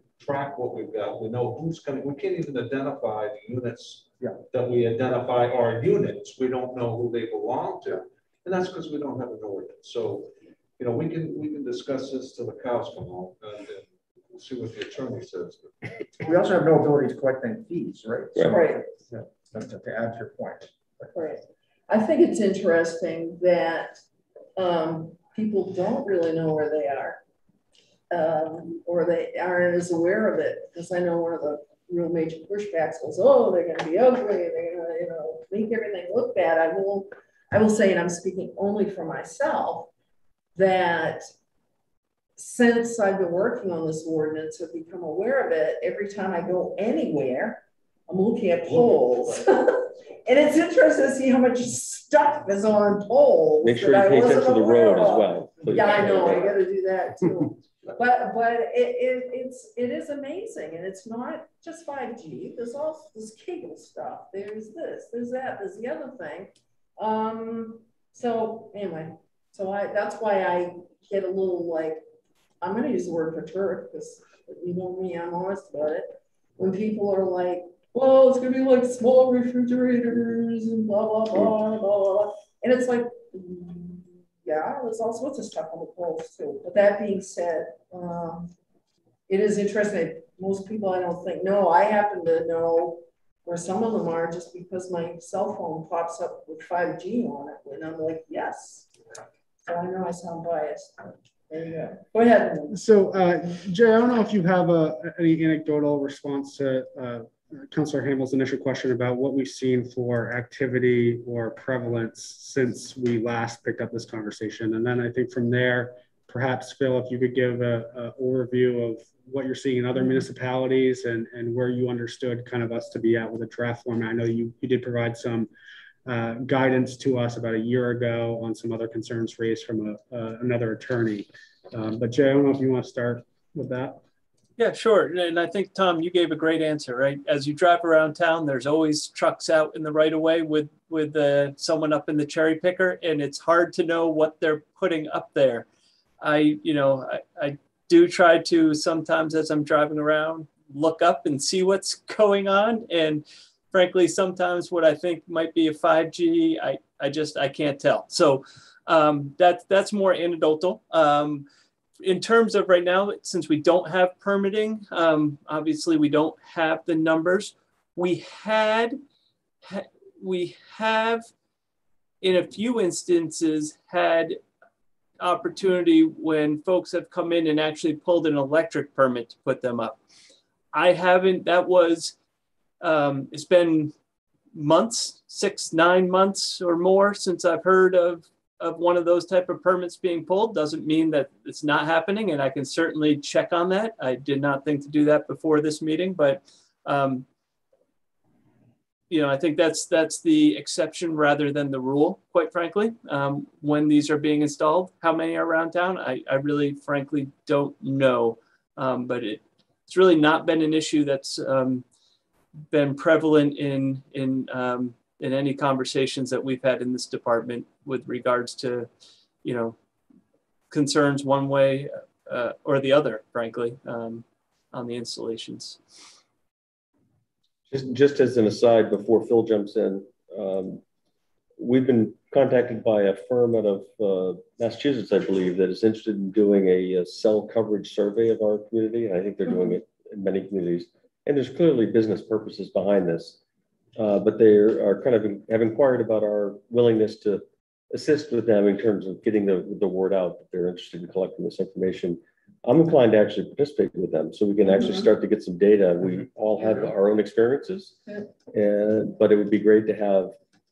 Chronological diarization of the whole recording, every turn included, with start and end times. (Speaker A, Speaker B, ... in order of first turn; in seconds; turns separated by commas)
Speaker A: 0.2-16.1, Speaker B: 16.2-18.9, Speaker C: 18.4-18.8, Speaker B: 19.5-21.1, Speaker C: 21.1-24.0, Speaker C: 24.6-27.2, Speaker C: 28.1-39.9, Speaker C: 40.5-41.3, Speaker C: 42.4-72.0, Speaker A: 48.7-49.3, Speaker D: 53.6-56.5, Speaker C: 72.6-88.5, Speaker C: 89.3-98.9, Speaker C: 99.6-102.8, Speaker E: 102.7-125.5, Speaker E: 126.0-134.0, Speaker F: 134.6-145.7, Speaker F: 146.2-161.4, Speaker F: 162.0-169.0, Speaker F: 169.6-171.3, Speaker F: 172.2-174.4, Speaker F: 175.2-180.0, Speaker F: 180.7-182.2, Speaker F: 182.8-183.9, Speaker F: 184.5-197.2, Speaker F: 199.1-211.8, Speaker F: 212.7-218.9, Speaker F: 219.4-219.8, Speaker F: 220.7-225.8, Speaker D: 227.7-230.8, Speaker D: 231.6-243.4, Speaker D: 243.9-258.0, Speaker C: 254.7-255.1, Speaker D: 258.5-260.3